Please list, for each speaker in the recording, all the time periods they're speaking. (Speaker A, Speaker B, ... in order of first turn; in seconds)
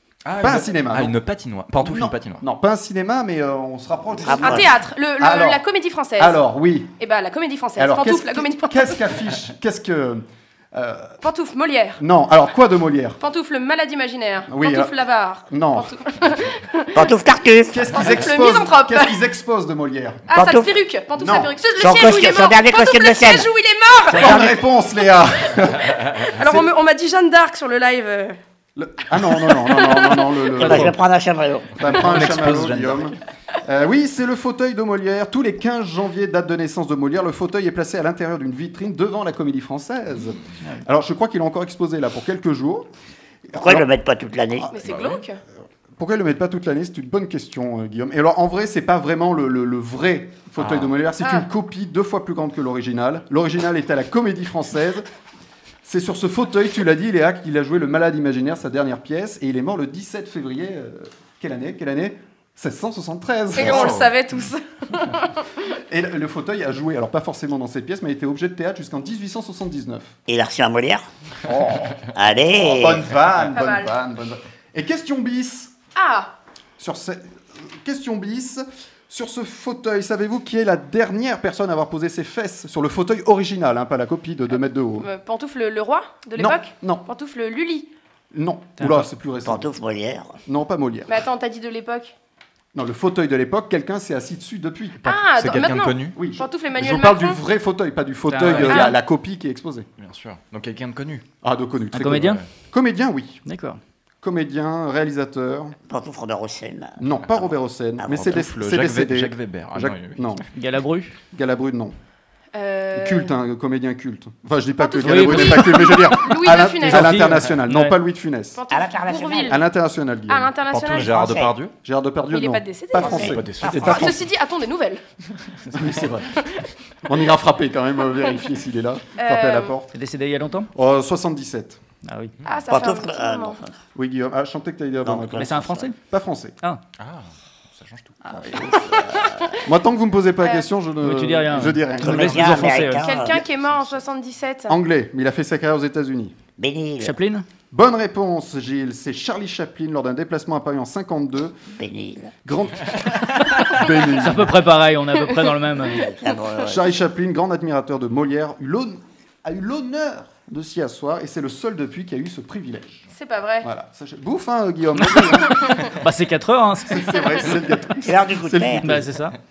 Speaker A: 0.2-2.4, 31.8-33.1, 44.8-45.2, 50.6-50.9, 63.7-64.1, 95.3-96.2, 98.4-98.9, 100.0-101.2, 102.2-102.5, 108.1-110.4, 120.7-121.7, 123.2-124.2, 137.0-138.4
Speaker B: 0.4-1.1, 1.8-5.6, 6.2-6.9, 7.8-11.2, 12.0-13.2, 14.5-14.9, 15.5-15.9, 17.7-20.2, 21.2-21.5, 24.1-26.7, 28.8-31.0, 31.8-42.9, 43.5-43.9, 46.0-55.0, 55.8-64.0, 65.9-70.2, 71.5-72.0, 72.5-75.7, 76.8-85.1, 86.4-87.0, 88.3-89.7, 90.5-91.2, 92.7-95.1, 96.2-99.9, 101.4-103.4, 104.2-105.8, 107.0-110.4, 111.3-112.0, 112.9-118.6, 119.5-120.5, 121.8-124.2, 125.7-126.4, 127.0-129.9, 130.7-131.8, 133.9-136.6, 138.3-139.0, 139.6-142.8, 144.7-146.3, 147.7-151.6, 152.4-154.6, 156.6-163.1, 163.6-165.7, 166.9-169.1
Speaker C: 4.2-4.7, 16.9-17.9, 20.3-20.7, 21.8-23.5, 24.2-24.5, 30.6-31.7, 43.5-44.7, 70.3-71.1, 72.1-73.1, 89.5-90.4, 105.9-107.0, 108.0-108.3, 118.7-119.6, 121.0-121.5, 123.0-124.1, 132.7-133.8, 135.0-135.9, 138.5-139.4, 142.0-143.4, 146.6-147.2, 151.7-152.3, 156.0-156.8, 168.0-168.9
Speaker D: 4.3-6.4, 7.0-9.0, 11.2-12.0, 13.2-17.0, 17.9-19.2, 20.3-24.4, 26.4-28.4, 44.7-45.4, 51.2-51.5, 63.5-65.5, 73.5-73.9, 76.0-76.3, 85.0-87.9, 91.1-92.1, 95.0-97.4, 112.6-113.3, 114.8-117.3, 118.6-119.6, 120.3-121.2, 122.3-125.0, 129.2-129.7, 132.4-133.6, 140.4-140.7, 143.0-144.8, 163.1-163.7
Speaker E: 88.8-89.1, 98.3-99.0, 101.9-102.4, 103.5-103.8, 110.5-111.2, 115.0-116.2, 116.8-118.0, 129.9-130.7, 132.1-132.3, 135.4-136.0, 141.0-143.1, 147.0-147.4, 154.1-156.1, 165.0-167.4, 168.8-169.3